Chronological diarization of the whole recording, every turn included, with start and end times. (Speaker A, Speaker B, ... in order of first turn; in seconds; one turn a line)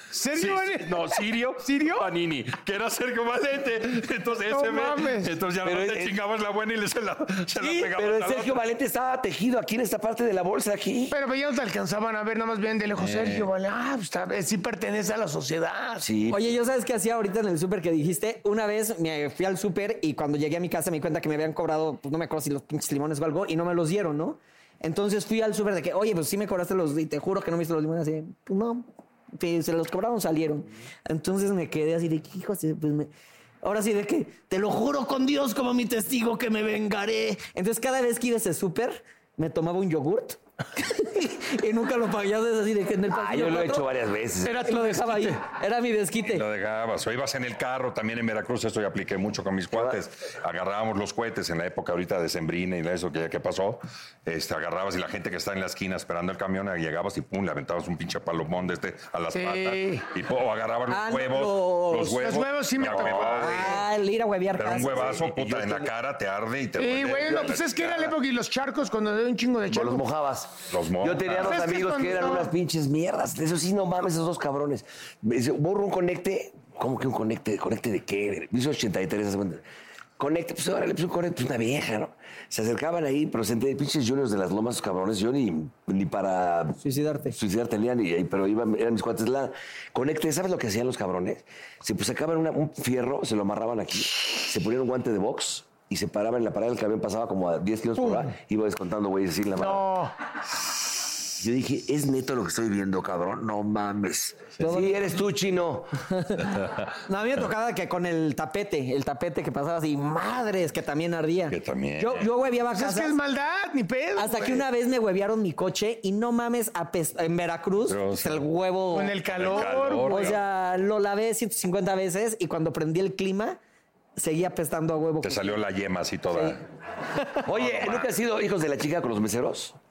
Speaker A: 0.1-2.1
Speaker B: 0.3-8.6
Speaker A: 4.5-5.3
Speaker C: 5.6-6.2
Speaker A: 7.6-7.9
Speaker C: 8.0-11.2
Speaker A: 11.1-16.1
Speaker B: 13.0-13.5
Speaker C: 16.0-16.5
Speaker D: 16.3-33.1
Speaker D: 33.6-43.9
Speaker C: 43.1-44.8
Speaker D: 44.4-46.4
Speaker A: 44.7-45.3
Speaker B: 46.2-63.8
Speaker C: 49.7-50.0
Speaker A: 59.3-60.1
Speaker D: 60.9-62.3
Speaker A: 62.2-63.8
Speaker D: 63.4-65.1
Speaker B: 64.5-68.1
Speaker C: 64.8-65.9
Speaker A: 66.8-70.0
Speaker C: 69.7-79.6
Speaker B: 70.7-71.6
Speaker A: 71.4-72.5
Speaker C: 80.2-99.8
Speaker D: 86.8-87.4
Speaker A: 98.0-98.2
Speaker A: 99.6-100.1
Speaker C: 101.4-106.0
Speaker D: 104.6-105.0
Speaker D: 106.1-113.1
Speaker B: 106.5-106.8
Speaker B: 111.5-112.3
Speaker A: 112.7-114.7
Speaker D: 114.2-119.2
Speaker B: 117.8-118.5
Speaker A: 118.9-120.4
Speaker B: 119.3-120.4
Speaker D: 120.1-123.6
Speaker D: 124.2-125.6
Speaker B: 125.2-126.6
Speaker D: 127.2-127.4
Speaker C: 127.4-129.8
Speaker B: 127.5-128.1